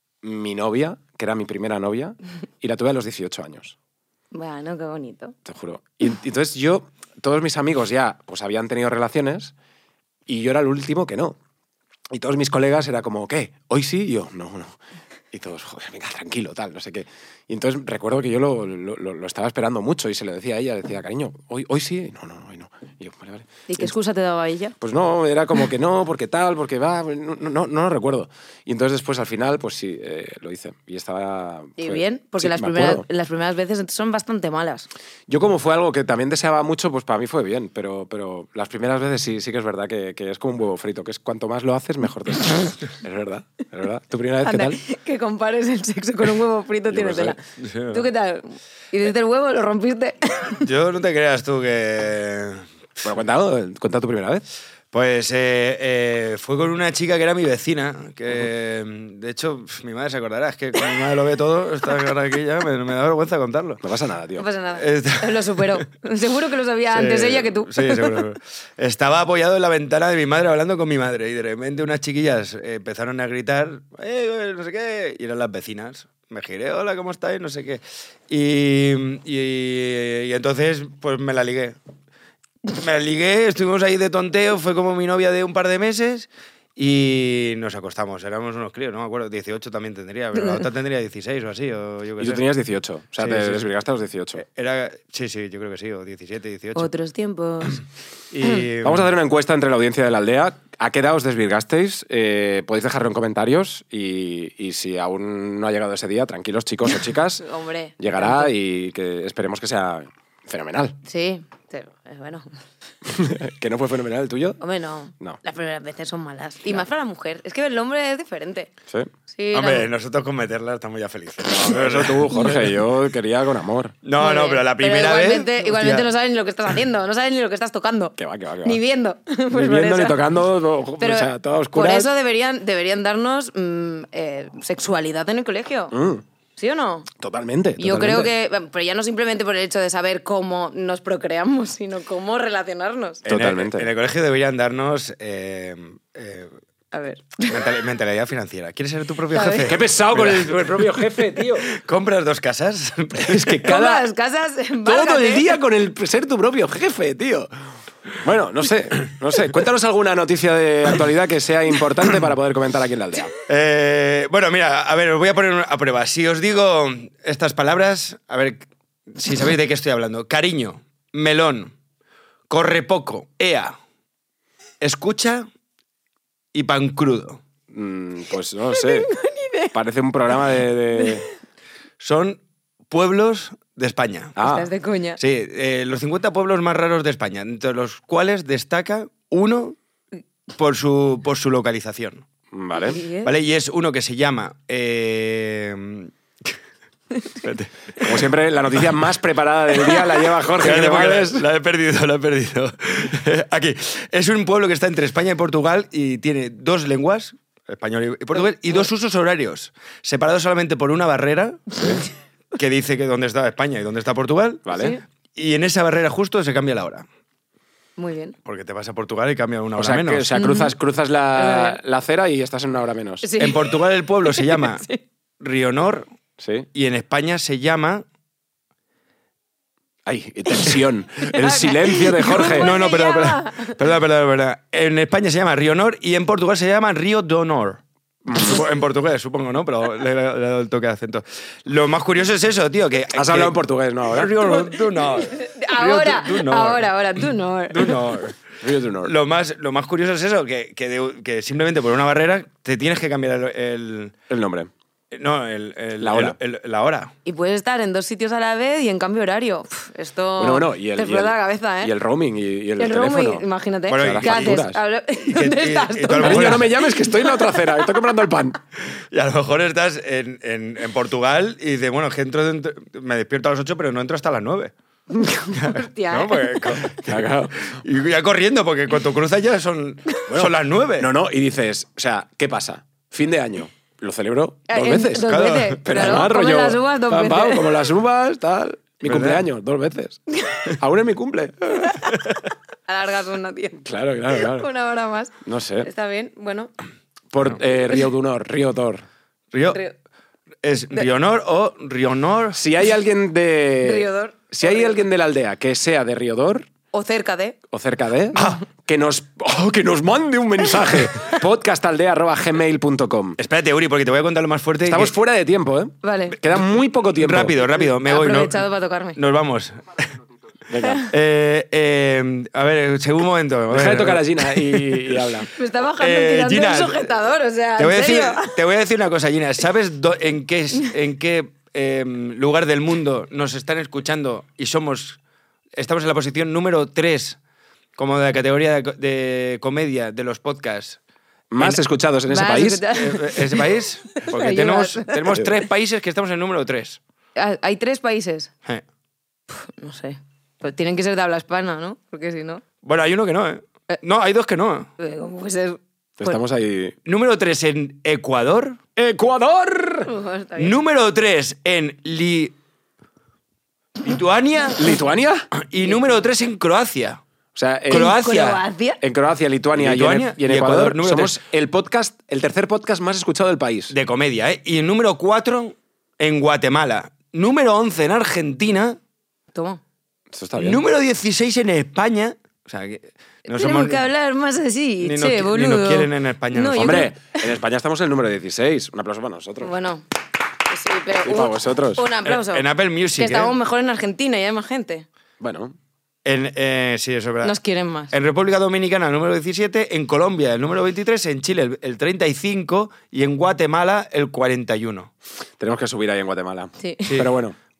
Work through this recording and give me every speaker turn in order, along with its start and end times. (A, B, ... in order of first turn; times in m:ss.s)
0:00.2-0:03.8 A
0:04.3-0:05.4 B
0:05.4-0:09.5 A
0:10.3-0:11.4 A
0:12.1-0:14.8 A
0:15.3-0:23.9 A
0:23.7-0:24.8 B
0:24.8-0:33.1 A
0:31.8-0:34.9 B
0:35.3-0:44.8 A
0:44.4-0:47.4 B
0:46.9-0:47.4 A
0:47.6-0:48.1 C
0:47.9-0:50.7 B
0:50.6-0:52.7 C
0:53.0-0:54.4 A
0:54.9-1:03.8 C
1:03.8-1:04.5 A
1:04.4-1:08.2 B
1:04.8-1:05.8 C
1:06.9-1:21.8 C
1:22.7-1:32.4 C
1:30.4-1:30.6 B
1:32.2-1:34.4 A
1:33.2-1:33.7 C
1:34.4-1:36.9 C
1:36.8-1:37.8 B
1:38.3-1:39.1 C
1:38.8-1:47.4 A
1:47.4-1:48.5 B
1:48.0-1:51.0 A
1:51.1-1:52.5 B
1:53.0-1:54.6 A
1:54.6-1:58.7 B
1:59.3-1:59.9 B
1:59.5-2:02.8 C
2:01.4-2:04.0 A
2:04.0-2:06.1 C
2:04.2-2:10.2 B
2:08.2-2:08.8 A
2:09.5-2:12.1 A
2:11.0-2:16.0 B
2:15.9-2:16.2 A
2:16.6-2:17.1 B
2:17.2-2:18.3 A
2:17.8-2:23.2 B
2:23.3-2:26.5 C
2:23.3-2:23.9 A
2:26.9-2:27.7 B
2:27.5-2:33.8 C
2:29.3-2:29.8 B
2:29.7-2:31.7 A
2:33.2-2:34.1 A
2:33.6-2:35.6 B
2:34.8-2:37.5 A
2:38.2-2:43.3 A
2:43.5-2:51.7 C
2:52.5-2:53.8 C
2:54.8-2:55.5 C
2:56.5-2:57.4 C
2:57.7-2:59.1 A
2:58.7-2:59.7 B
2:59.7-3:01.3 A
3:02.0-3:02.4 C
3:02.9-3:04.4 C
3:04.4-3:04.7 A
3:04.4-3:05.2 B
3:05.2-3:09.8 C
3:10.6-3:12.2 C
3:12.5-3:13.0 A
3:12.8-3:13.3 B
3:13.2-3:16.5 C
3:17.3-3:18.2 C
3:18.0-3:21.5 A
3:20.6-3:31.8 C
3:31.8-3:32.0 A
3:32.6-3:34.8 C
3:34.7-3:35.0 A
3:34.7-3:35.0 B
3:35.4-3:37.1 C
3:38.0-3:38.4 B
3:38.4-3:40.3 C
3:39.8-3:43.3 A
3:40.4-3:40.7 B
3:41.4-3:41.8 B
3:43.2-3:45.0 B
3:43.4-3:44.8 C
3:45.4-3:46.1 C
3:46.4-3:46.7 A
3:46.7-3:48.0 C
3:50.1-3:52.7 A
3:51.3-3:53.8 B
3:52.4-3:57.8 C
3:58.2-3:58.6 A
3:58.3-4:08.4 C
4:03.1-4:04.3 A
4:04.5-4:08.2 B
4:08.6-4:09.1 A
4:09.0-4:14.2 C
4:14.3-4:14.7 A
4:15.1-4:17.1 C
4:16.0-4:16.4 A
4:17.2-4:21.9 B
4:20.4-4:24.8 A
4:22.8-4:27.8 B
4:23.9-4:24.6 C
4:25.2-4:26.8 C
4:26.2-4:28.6 A
4:29.0-4:34.7 C
4:35.1-4:36.9 B
4:35.5-4:41.1 C
4:37.0-4:37.6 A
4:40.3-4:50.2 A
4:44.7-4:47.9 B
4:45.2-4:46.3 C
4:49.0-4:49.4 C
4:50.7-4:51.9 A
4:51.8-4:52.3 B
4:52.9-4:56.7 B
4:53.8-4:54.7 A
4:55.4-4:55.9 A
4:57.3-4:59.0 A
4:59.5-4:59.8 C
5:00.6-5:02.6 C
5:02.5-5:06.7 A
5:03.8-5:05.0 B
5:06.9-5:07.6 B
5:07.7-5:13.4 A
5:13.4-5:15.1 C
5:14.8-5:17.6 A
5:16.0-5:16.4 B
5:17.2-5:19.8 C
5:18.0-5:19.2 B
5:20.7-5:21.1 A
5:21.1-5:25.4 C
5:23.7-5:25.5 A
5:25.6-5:28.6 B
5:26.0-5:27.1 C
5:27.8-5:35.2 C
5:35.8-5:37.4 C
5:38.0-5:41.0 C
5:41.5-5:42.8 A
5:42.3-5:45.2 B
5:42.9-5:47.0 C
5:44.3-5:45.7 A
5:47.4-5:48.5 B
5:49.5-5:52.6 B
5:52.8-5:54.9 C
5:55.0-5:56.4 B
5:56.2-5:57.0 A
5:57.1-5:58.8 C
5:59.0-6:00.1 A
6:00.1-6:00.8 B
6:00.6-6:02.6 C
6:04.0-6:05.0 C
6:04.8-6:05.5 A
6:05.6-6:07.2 C
6:07.6-6:08.2 A
6:07.9-6:08.6 C
6:07.9-6:09.0 B
6:09.0-6:14.0 A
6:09.7-6:11.4 C
6:13.9-6:19.0 C
6:19.5-6:19.8 B
6:20.3-6:20.8 A
6:20.6-6:24.0 C
6:23.5-6:27.4 B
6:25.0-6:27.1 C
6:26.8-6:29.7 A
6:29.6-6:30.0 B
6:30.6-6:35.1 B
6:31.2-6:32.1 A
6:32.2-6:33.6 C
6:35.4-6:35.8 A
6:36.2-6:37.6 C
6:37.4-6:38.1 B
6:38.1-6:45.1 C
6:45.6-6:47.6 A
6:46.8-6:47.2 B
6:47.1-6:47.4 C